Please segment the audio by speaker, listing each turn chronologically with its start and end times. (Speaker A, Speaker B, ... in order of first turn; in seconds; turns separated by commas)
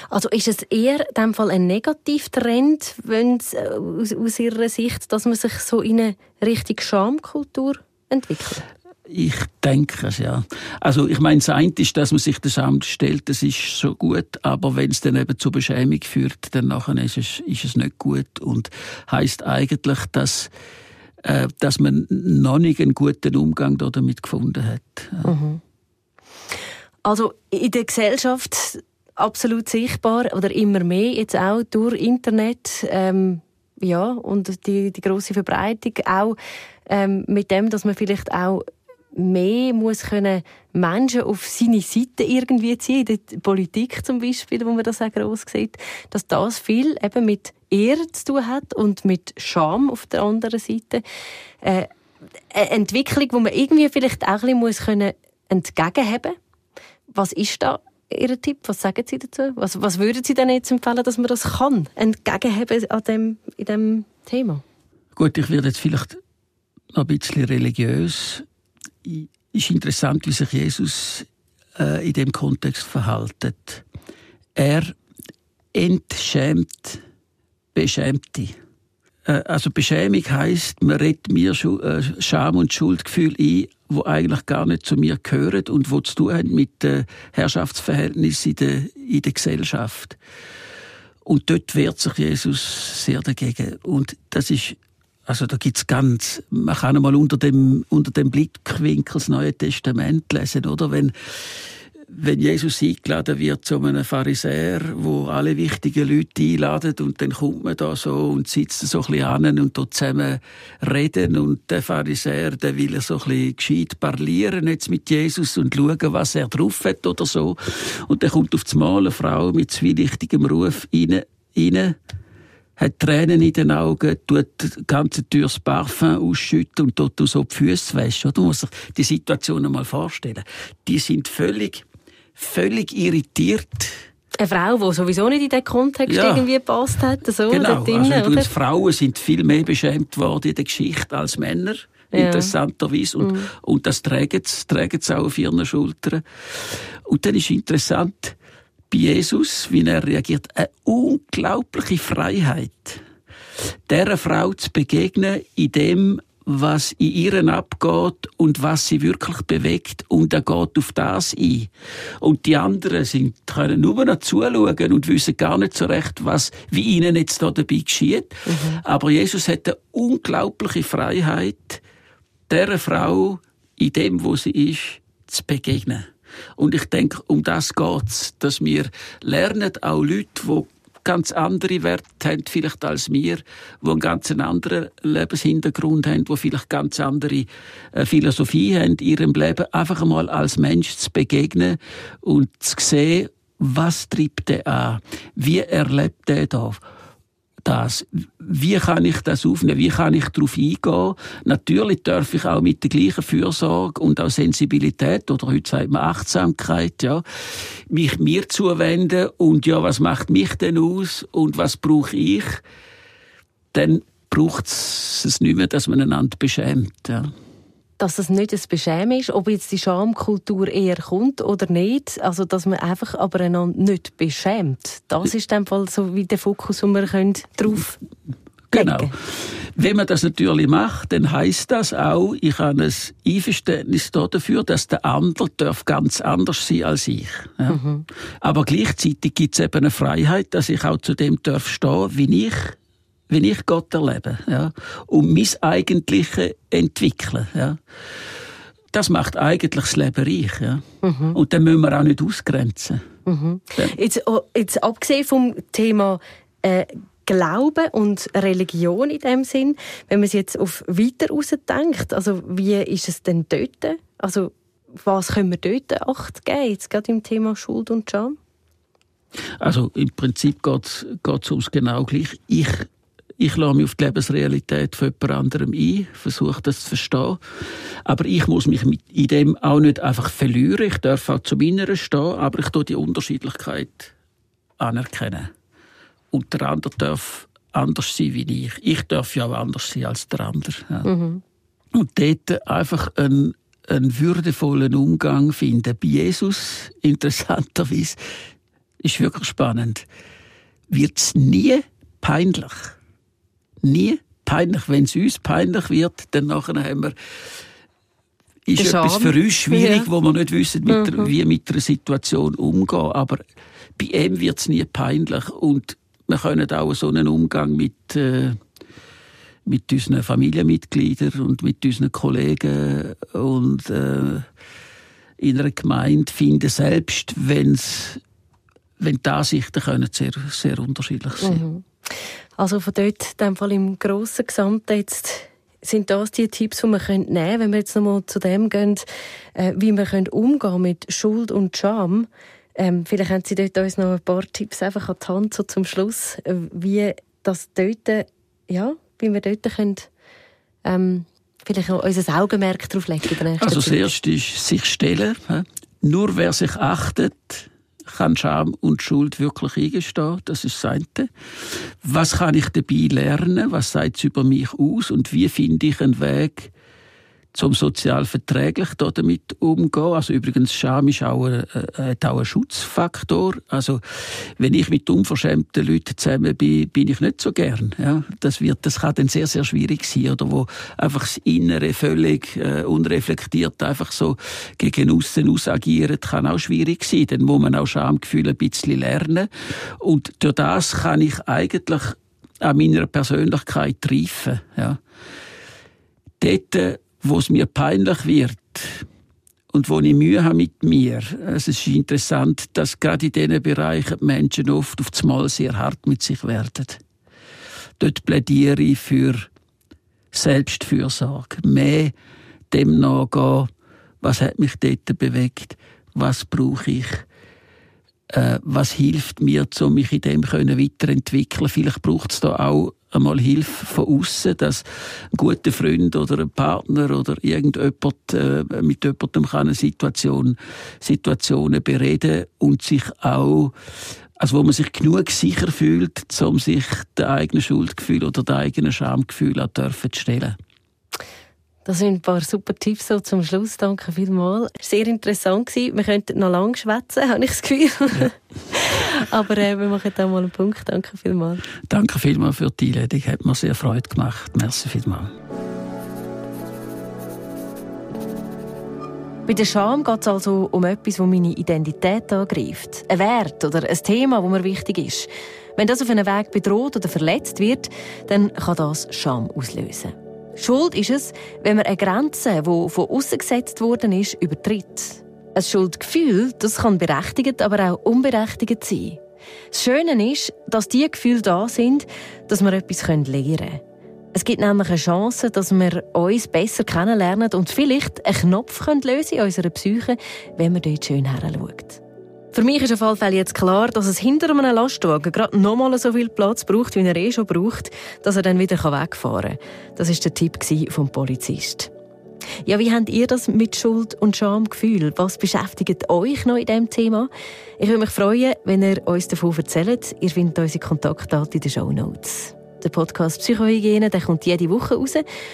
Speaker A: 0.1-8.7, Speaker B: 9.1-20.5, Speaker B: 21.2-25.3, Speaker A: 25.2-25.6, Speaker A: 27.0-51.0, Speaker A: 51.6-51.9, Speaker A: 52.5-56.4, Speaker A: 57.1-64.6, Speaker B: 65.1-66.2, Speaker B: 66.9-68.4, Speaker B: 69.0-73.8, Speaker B: 74.5-74.9, Speaker B: 75.7-77.0, Speaker B: 77.7-78.5, Speaker B: 79.2-90.2, Speaker B: 91.2-122.0, Speaker B: 122.8-131.8, Speaker B: 132.3-134.0, Speaker A: 134.4-138.5, Speaker B: 136.1-136.4, Speaker B: 137.5-148.3, Speaker A: 142.1-142.5, Speaker A: 143.2-143.5, Speaker B: 148.9-153.0, Speaker B: 153.9-171.8, Speaker A: 168.4-168.8, Speaker B: 172.5-196.8, Speaker B: 197.6-212.6, Speaker B: 213.7-217.3, Speaker A: 218.0-228.0, Speaker B: 228.7-237.8, Speaker A: 228.7-229.1, Speaker A: 237.7-238.1, Speaker B: 238.4-242.8, Speaker B: 243.3-247.8, Speaker B: 248.9-253.0, Speaker A: 251.0-251.4, Speaker A: 253.2-268.4, Speaker B: 269.6-272.9, Speaker B: 273.4-277.4, Speaker B: 278.0-284.1, Speaker B: 284.8-285.5, Speaker B: 286.3-291.1, Speaker A: 291.0-291.4, Speaker B: 291.9-298.2, Speaker B: 299.0-300.0, Speaker B: 300.9-302.9, Speaker B: 303.8-307.1, Speaker B: 308.6-313.4, Speaker A: 308.8-310.1, Speaker A: 310.9-311.3, Speaker B: 314.0-318.6, Speaker B: 319.6-324.5, Speaker B: 325.4-328.2, Speaker B: 329.0-331.6, Speaker A: 331.4-350.1, Speaker A: 350.8-354.1, Speaker B: 353.6-366.7, Speaker B: 367.5-395.0, Speaker B: 396.4-399.0, Speaker B: 399.7-407.0, Speaker B: 408.0-409.5, Speaker B: 410.3-412.1, Speaker B: 412.7-413.7, Speaker B: 414.2-417.2, Speaker B: 418.3-433.7, Speaker B: 434.4-440.6, Speaker A: 441.8-451.6, Speaker B: 451.9-455.3, Speaker A: 459.4-479.2, Speaker A: 479.7-483.8, Speaker A: 484.3-492.0, Speaker A: 492.5-501.9, Speaker A: 502.6-515.2